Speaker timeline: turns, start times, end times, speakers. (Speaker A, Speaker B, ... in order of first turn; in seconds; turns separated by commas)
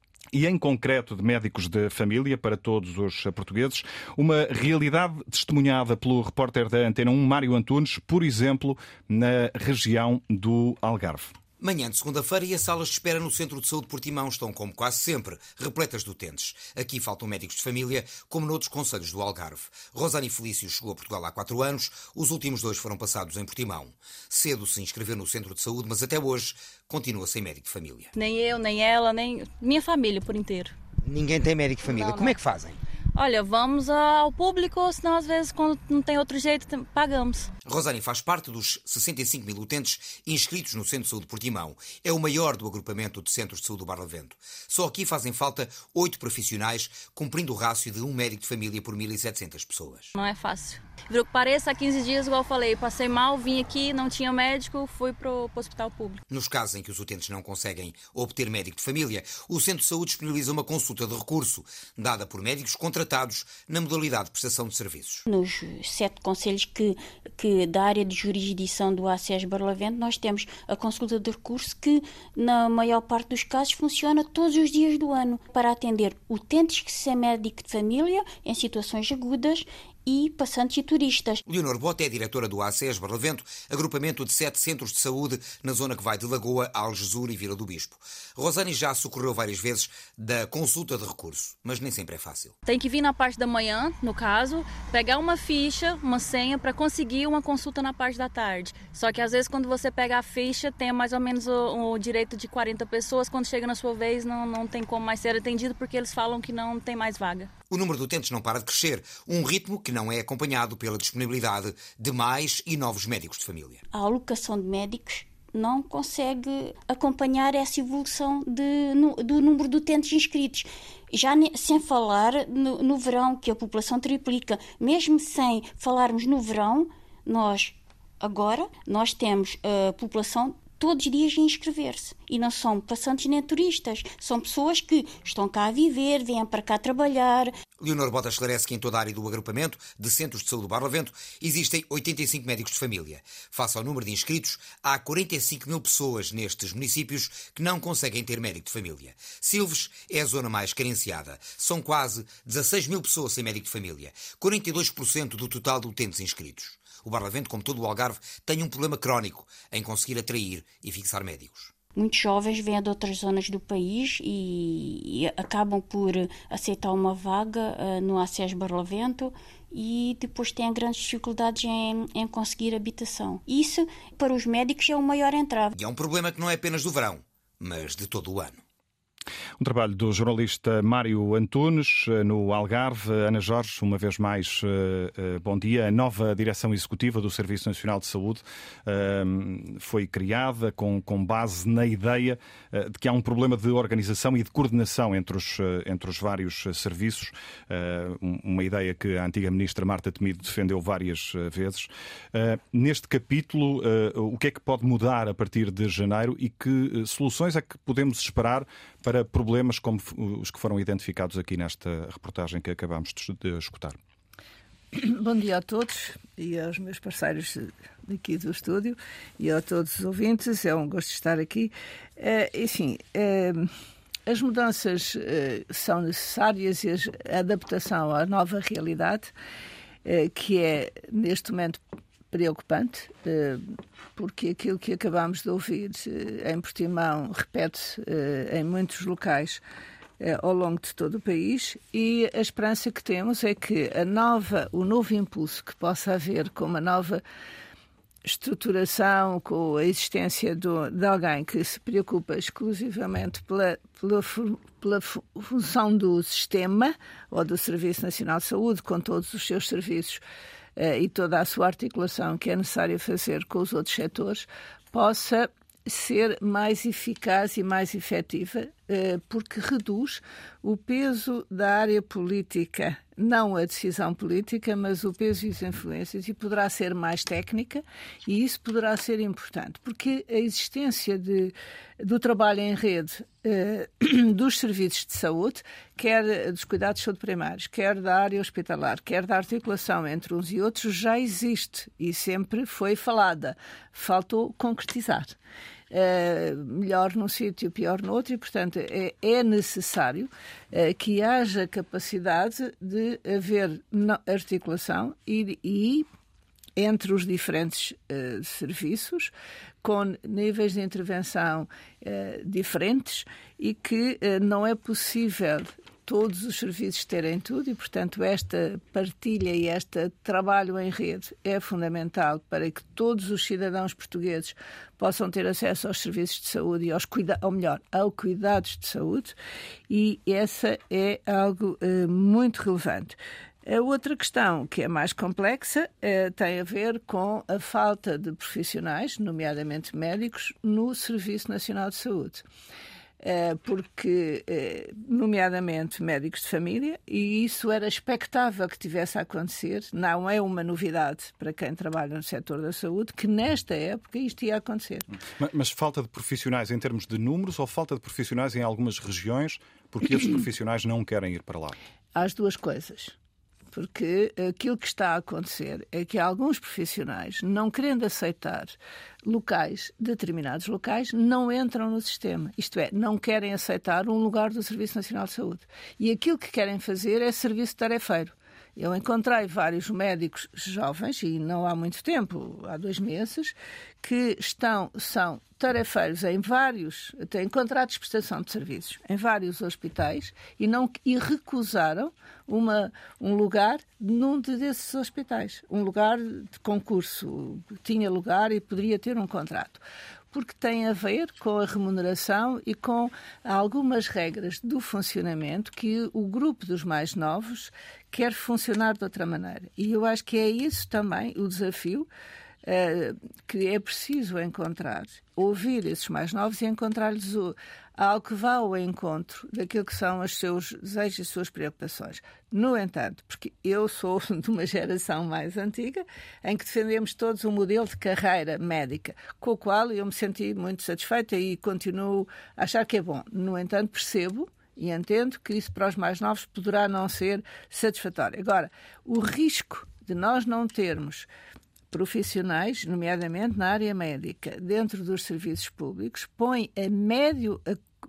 Speaker A: 0.3-11.3, Speaker B: 11.6-28.1, Speaker C: 28.1-30.8, Speaker B: 31.0-32.8, Speaker C: 33.1-37.5, Speaker B: 37.6-50.1, Speaker C: 50.1-56.2, Speaker B: 56.3-65.3, Speaker D: 65.3-81.4, Speaker B: 81.5-92.5, Speaker C: 92.6-107.5, Speaker B: 107.7-113.8, Speaker D: 113.9-137.5, Speaker B: 137.8-161.7, Speaker D: 161.9-175.7, Speaker B: 175.7-178.6, Speaker A: 179.6-214.0, Speaker E: 214.9-223.7, Speaker E: 224.3-229.3, Speaker E: 230.0-239.6, Speaker E: 240.2-247.2, Speaker E: 248.2-260.2, Speaker E: 260.8-295.4, Speaker E: 295.9-306.1, Speaker E: 306.8-309.3, Speaker E: 309.8-329.4, Speaker E: 329.9-342.4, Speaker E: 343.2-355.1, Speaker A: 355.4-361.8, Speaker E: 362.1-363.1, Speaker E: 363.7-412.1, Speaker E: 412.6-441.3, Speaker E: 441.9-447.8